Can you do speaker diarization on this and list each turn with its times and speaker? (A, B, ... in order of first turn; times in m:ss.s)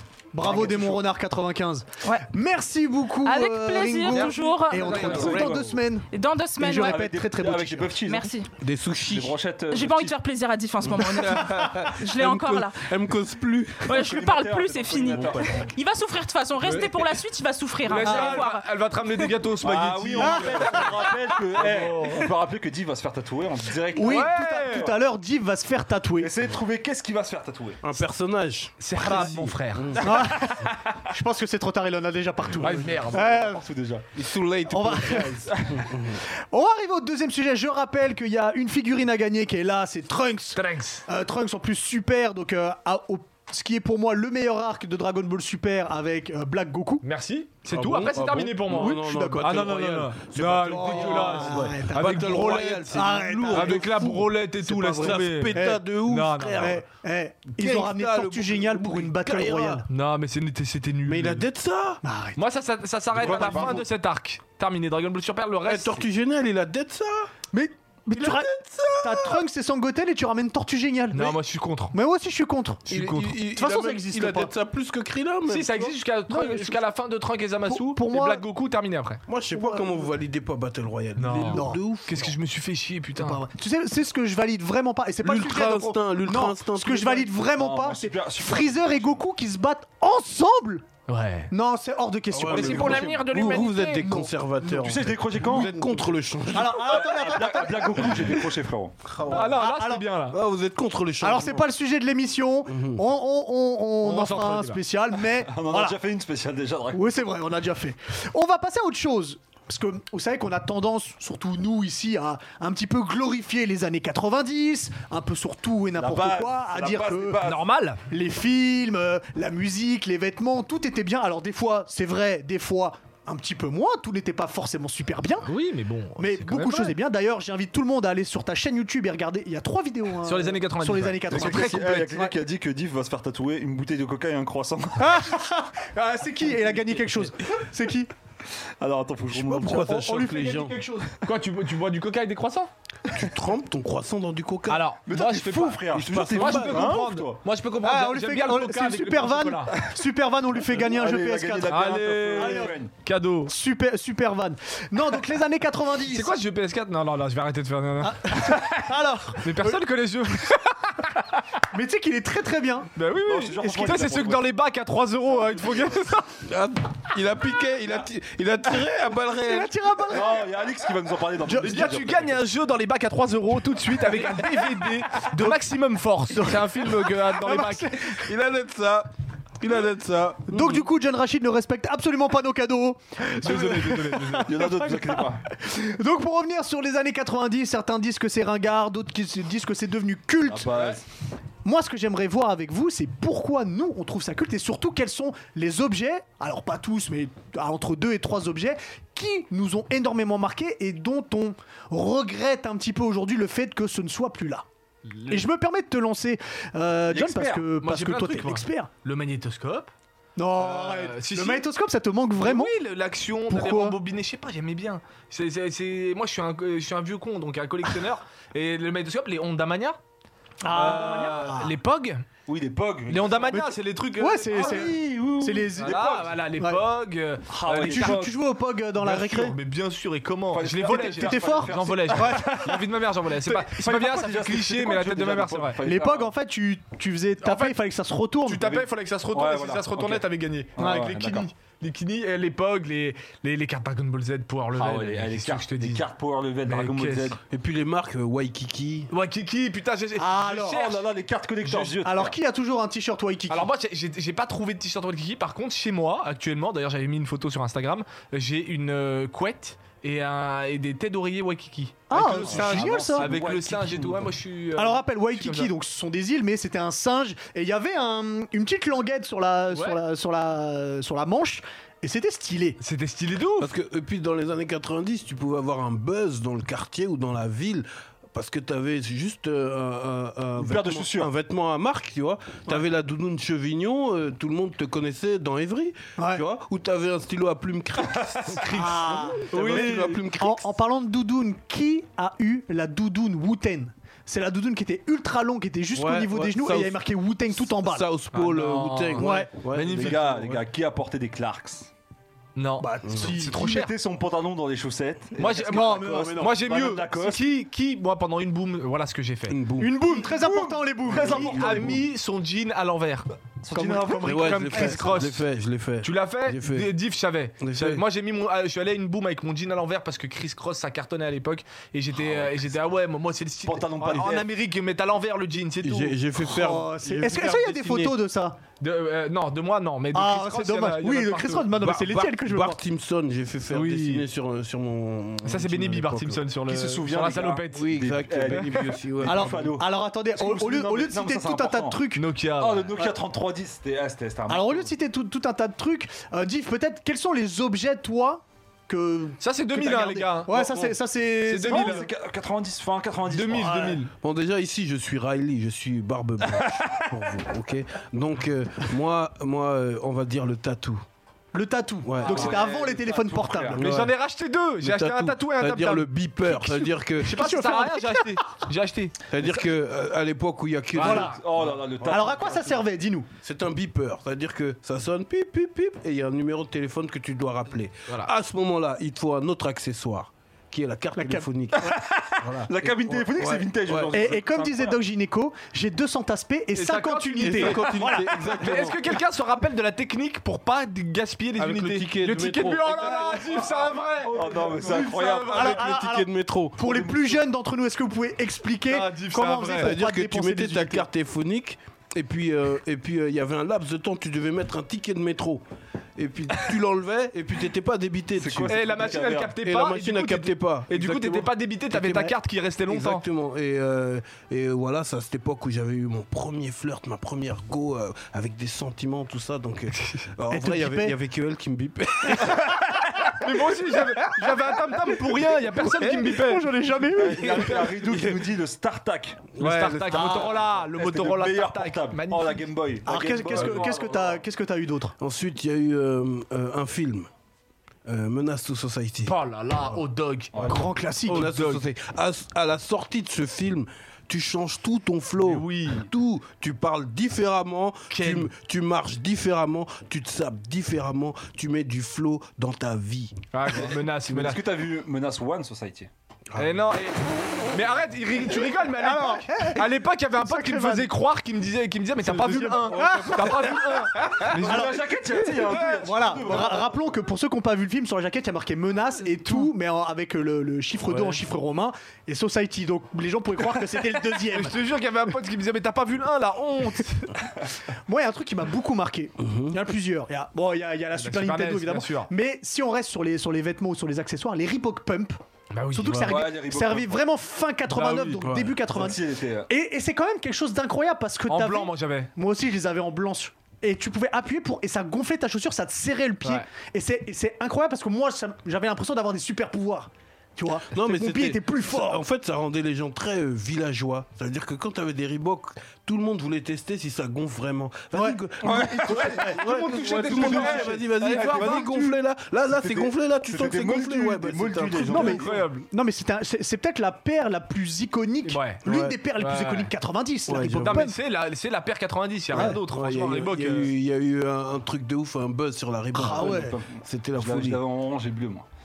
0:00.3-0:06.1 A
0:00.4-0:01.0 B
0:03.2-0:05.4 C
0:04.8-0:05.7 D
0:05.0-0:05.6 B
0:05.1-0:05.6 E
0:06.1-0:07.0 C
0:06.6-0:08.0 A
0:06.7-0:08.3 B
0:08.1-0:08.5 C
0:08.6-0:09.4 E
0:09.1-0:10.2 B
0:09.7-0:12.9 C
0:10.8-0:14.0 E
0:13.8-0:18.7 C
0:13.9-0:15.7 B
0:15.2-0:15.6 E
0:16.6-0:17.0 D
0:17.8-0:22.3 D
0:18.0-0:18.4 A
0:18.0-0:18.4 B
0:19.6-0:24.3 B
0:20.2-0:21.1 A
0:24.0-0:26.3 A
0:24.0-0:25.0 D
0:26.2-0:27.8 B
0:27.8-0:30.3 E
0:28.8-0:30.3 D
0:30.0-0:33.7 A
0:32.6-0:33.4 D
0:33.0-0:34.1 B
0:34.1-0:36.2 E
0:34.7-0:35.5 A
0:35.2-0:35.9 B
0:36.5-0:47.0 A
0:40.6-0:41.1 D
0:47.0-0:52.8 D
0:47.7-0:56.8 E
0:48.7-0:49.7 A
0:50.7-0:55.8 A
0:53.5-0:56.8 D
0:56.6-0:59.9 A
0:57.5-0:59.8 E
0:59.9-1:01.5 D
1:01.1-1:02.0 E
1:02.0-1:02.4 A
1:02.4-1:06.0 D
1:03.1-1:03.9 B
1:03.2-1:03.7 E
1:05.7-1:07.3 E
1:07.5-1:11.4 A
1:08.2-1:09.4 E
1:11.1-1:12.0 D
1:11.9-1:12.9 A
1:12.9-1:13.4 D
1:12.9-1:16.0 E
1:13.4-1:14.5 A
1:15.5-1:19.2 D
1:16.3-1:16.8 A
1:17.7-1:18.4 A
1:19.3-1:22.3 E
1:19.5-1:20.1 A
1:21.2-1:23.4 D
1:21.5-1:21.8 A
1:23.2-1:30.9 A
1:25.2-1:27.3 E
1:27.5-1:29.2 B
1:31.1-1:31.5 D
1:31.5-1:33.2 A
1:32.3-1:37.3 E
1:32.5-1:34.2 D
1:32.5-1:33.2 B
1:34.0-1:38.4 A
1:34.8-1:35.7 B
1:36.7-1:39.0 B
1:39.1-1:39.5 E
1:39.3-1:40.4 D
1:39.4-1:40.1 A
1:40.3-1:41.6 E
1:41.2-1:46.0 A
1:42.7-1:43.0 E
1:44.0-1:44.8 D
1:45.3-1:47.2 B
1:46.9-1:57.4 A
1:55.9-1:57.6 B
1:57.4-1:58.0 D
1:58.1-2:05.5 A
2:05.4-2:07.0 D
2:06.2-2:12.3 A
2:10.2-2:12.1 D
2:11.3-2:15.3 B
2:15.0-2:18.1 A
2:18.8-2:20.0 B
2:19.3-2:21.2 A
2:19.5-2:20.8 E
2:21.2-2:22.7 D
2:23.1-2:24.9 E
2:24.7-2:29.8 D
2:25.1-2:27.4 B
2:25.9-2:26.9 E
2:27.8-2:31.8 A
2:30.6-2:32.9 B
2:31.7-2:33.6 D
2:32.3-2:32.8 A
2:33.5-2:36.4 A
2:36.1-2:38.6 D
2:38.0-2:39.8 A
2:39.3-2:41.4 D
2:41.7-2:42.9 A
2:43.0-2:46.4 D
2:43.2-2:44.5 B
2:43.6-2:44.1 A
2:45.6-2:45.9 B
2:46.4-2:49.7 E
2:49.4-2:50.5 A
2:50.1-2:52.4 B
2:51.4-2:51.9 A
2:51.6-2:58.1 D
2:55.3-2:55.7 A
2:56.3-2:58.2 A
2:58.1-3:00.9 E
3:00.5-3:10.9 A
3:03.4-3:04.5 D
3:04.4-3:05.4 B
3:10.4-3:11.0 B
3:11.6-3:24.6 A
3:25.1-3:25.4 D
3:25.3-3:28.9 A
3:27.1-3:27.7 B
3:27.8-3:29.9 D
3:30.4-3:32.8 A
3:30.6-3:31.7 D
3:32.4-3:40.0 D
3:33.5-3:34.0 A
3:40.6-3:41.7 A
3:40.7-3:42.2 D
3:42.5-3:43.6 B
3:43.1-3:44.9 D
3:43.5-3:46.8 A
3:44.5-3:46.1 B
3:45.8-3:48.2 D
3:47.5-3:48.4 B
3:47.8-3:49.6 A
3:49.0-3:55.8 D
3:50.5-3:52.8 B
3:50.9-3:52.9 A
3:53.4-3:56.3 B
3:55.8-3:58.9 A
3:57.4-3:57.8 D
3:58.4-4:06.1 D
3:59.3-4:01.5 B
4:00.8-4:01.2 A
4:04.7-4:07.4 B
4:06.7-4:07.4 D
4:07.5-4:09.1 E
4:09.1-4:11.0 D
4:10.2-4:10.9 A
4:10.5-4:12.4 B
4:11.8-4:13.7 A
4:13.5-4:25.7 D
4:22.1-4:23.4 A
4:22.1-4:24.3 B
4:24.8-4:32.8 A
4:29.7-4:30.0 D
4:32.8-4:33.7 D
4:33.6-4:50.7 E
4:40.6-4:41.3 B
4:46.2-4:46.4 A
4:48.1-4:48.7 B
4:48.7-4:58.1 A
4:49.4-4:50.2 D
4:55.9-4:57.0 E
4:57.6-5:00.6 E
4:58.3-5:00.4 D
4:59.2-4:59.5 A
4:59.8-5:01.9 B
5:02.6-5:03.9 D
5:02.8-5:03.9 A
5:03.1-5:03.3 E
5:03.3-5:07.5 B
5:05.4-5:09.6 D
5:05.7-5:06.5 A
5:09.5-5:10.0 E
5:09.8-5:11.9 A
5:10.1-5:11.9 B
5:11.1-5:12.0 E
5:11.1-5:13.3 D
5:13.6-5:14.7 B
5:13.7-5:15.0 A
5:14.2-5:15.5 D
5:14.2-5:16.9 E
5:16.0-5:26.2 D
5:17.6-5:18.0 E
5:22.2-5:22.7 B
5:23.6-5:24.5 B
5:24.0-5:24.4 E
5:25.8-5:28.2 E
5:26.4-5:28.6 A
5:28.8-5:31.7 D
5:30.1-5:32.8 A
5:31.7-5:36.5 E
5:33.7-5:34.3 D
5:35.4-5:38.9 D
5:36.7-5:42.0 B
5:37.7-5:39.8 E
5:39.2-5:42.2 A
5:42.1-5:42.9 D
5:42.6-5:44.9 B
5:44.5-5:52.1 A
5:49.4-5:50.6 D
5:50.5-5:51.0 E
5:51.5-5:52.1 D
5:51.6-5:54.0 B
5:53.3-5:54.1 D
5:53.6-5:54.0 A
5:54.1-6:01.0 E
5:56.6-5:57.2 B
6:01.5-6:03.8 A
6:02.0-6:02.6 E
6:02.2-6:03.8 B
6:03.7-6:04.2 E
6:03.8-6:09.2 D
6:04.8-6:07.4 E
6:07.3-6:08.3 A
6:09.3-6:12.6 E
6:10.9-6:11.4 D
6:11.0-6:12.8 B
6:11.0-6:11.4 A
6:12.1-6:13.3 A
6:13.4-6:21.9 E
6:21.2-6:22.0 A
6:21.8-6:25.0 B
6:22.4-6:24.2 E
6:24.1-6:28.8 A
6:26.7-6:35.9 D
6:27.4-6:29.0 E
6:31.6-6:33.5 E
6:32.9-6:33.5 A
6:34.2-6:36.0 B
6:35.5-6:41.1 A
6:35.7-6:36.8 E
6:36.8-6:37.4 B
6:38.9-6:40.0 D
6:39.7-6:45.6 E
6:46.2-6:48.8 E
6:48.4-6:49.5 B
6:48.7-6:53.2 D
6:49.6-6:51.5 E
6:51.9-6:52.3 A
6:52.9-7:02.8 E
7:00.0-7:00.2 D
7:00.5-7:01.2 A
7:03.3-7:06.7 D
7:05.1-7:07.9 A
7:07.1-7:09.5 B
7:08.0-7:08.4 E
7:09.6-7:10.4 E
7:09.6-7:12.7 D
7:10.1-7:10.6 A
7:10.4-7:14.4 B
7:13.1-7:15.2 A
7:13.5-7:13.9 D
7:15.2-7:17.3 E
7:18.0-7:19.4 E
7:19.2-7:20.5 D
7:20.5-7:20.9 B
7:20.6-7:21.5 A
7:20.7-7:33.4 E
7:21.2-7:21.8 D
7:25.4-7:26.1 D
7:28.1-7:28.5 D
7:33.5-7:34.6 D
7:33.8-7:36.1 B
7:36.5-7:36.9 E
7:36.6-7:44.8 D
7:38.9-7:41.1 A
7:42.2-7:54.8 A
7:42.9-7:43.8 E
7:44.5-7:46.9 B
7:49.4-7:49.7 D
7:51.1-7:51.4 D
7:54.3-7:57.4 D
7:58.1-8:05.4 A
7:59.4-7:59.7 E
8:01.2-8:02.3 D
8:05.7-8:06.4 D
8:05.9-8:22.3 A
8:06.3-8:07.2 B
8:07.9-8:08.4 D
8:08.4-8:08.8 E
8:08.9-8:09.7 B
8:11.5-8:12.3 D
8:20.9-8:35.4 E
8:28.1-8:29.6 A
8:28.6-8:29.5 B
8:29.0-8:32.1 D
8:30.3-8:32.2 B
8:32.7-8:35.6 B
8:35.0-8:41.2 A
8:35.1-8:35.9 D
8:38.4-8:38.8 D
8:38.8-8:39.2 E
8:39.4-8:39.9 D
8:40.5-8:41.1 E
8:40.7-8:43.9 D
8:42.6-8:47.8 E
8:46.1-8:46.8 A
8:46.4-8:48.7 B